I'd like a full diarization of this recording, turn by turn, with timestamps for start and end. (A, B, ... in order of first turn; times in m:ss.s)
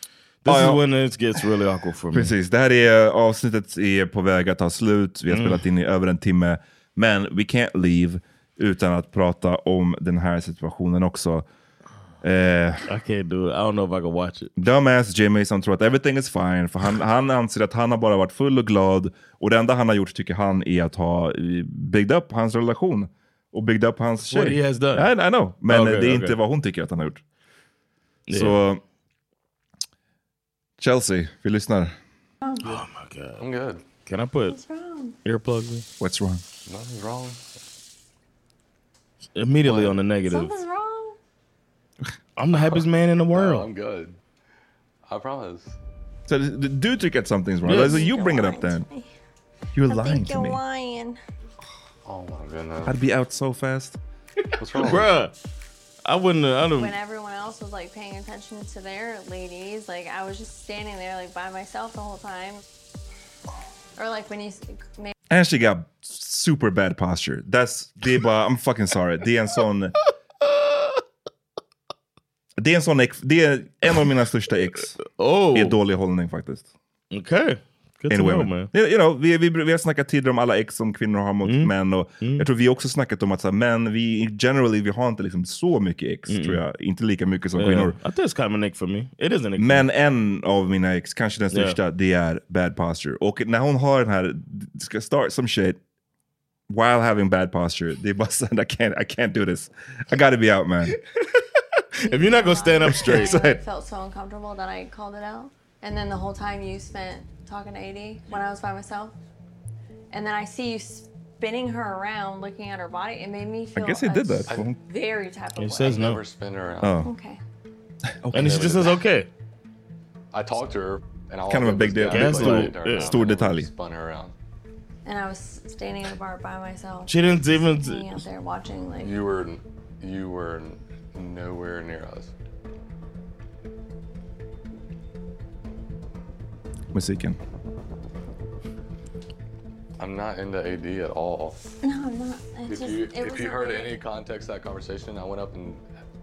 0:00.4-0:02.3 A
0:00.4-0:00.8 B
0:02.1-0:11.4 B
0:05.3-0:05.6 A
0:12.2-0:12.8 B
0:12.9-0:14.5 A
0:14.6-0:27.2 B
0:24.2-0:25.1 A
0:25.6-0:26.4 A
0:28.3-0:28.6 A
0:28.3-0:28.8 B
0:30.8-0:31.9 B
0:32.4-0:32.8 C
0:32.6-0:33.4 A
0:33.4-0:33.8 D
0:34.0-0:34.6 A
0:34.5-0:35.2 C
0:35.2-0:35.8 A
0:36.0-0:36.4 B
0:36.6-0:37.4 D
0:39.4-0:40.5 A
0:39.6-0:40.0 D
0:40.2-0:41.2 C
0:42.4-0:43.7 A
0:43.3-0:44.2 D
0:45.0-0:45.8 D
0:46.3-0:48.8 B
0:47.6-0:48.0 A
0:47.7-0:49.1 C
0:49.7-0:50.6 B
0:49.9-0:51.2 C
0:52.0-0:53.0 D
0:52.8-0:54.0 B
0:54.6-0:55.1 D
0:54.8-0:55.3 A
0:56.0-0:57.0 A
0:56.7-1:02.6 C
1:04.0-1:05.1 C
1:05.3-1:09.9 B
1:10.4-1:11.0 A
1:12.6-1:15.0 B
1:15.1-1:15.8 A
1:15.5-1:16.7 B
1:17.1-1:18.7 A
1:18.1-1:28.0 B
1:21.4-1:22.5 A
1:26.3-1:26.6 A
1:27.6-1:29.8 A
1:29.6-1:35.8 B
1:31.5-1:31.8 A
1:36.7-1:40.9 B
1:42.0-1:43.4 A
1:42.0-1:49.1 C
1:42.9-1:43.6 B
1:50.1-1:56.1 C
1:53.7-1:54.8 B
1:55.6-1:56.2 A
1:55.8-1:57.0 D
1:56.8-1:57.1 B
1:57.0-1:57.4 C
1:58.2-1:58.8 B
1:58.3-1:59.3 A
1:58.4-1:58.8 D
2:00.3-2:04.3 D
2:01.5-2:03.7 B
2:02.1-2:03.1 A
2:05.0-2:09.1 C
2:07.1-2:08.2 A
2:09.0-2:12.3 D
2:16.9-2:17.4 B
2:20.0-2:21.6 D
2:21.8-2:24.0 C
2:22.6-2:25.8 D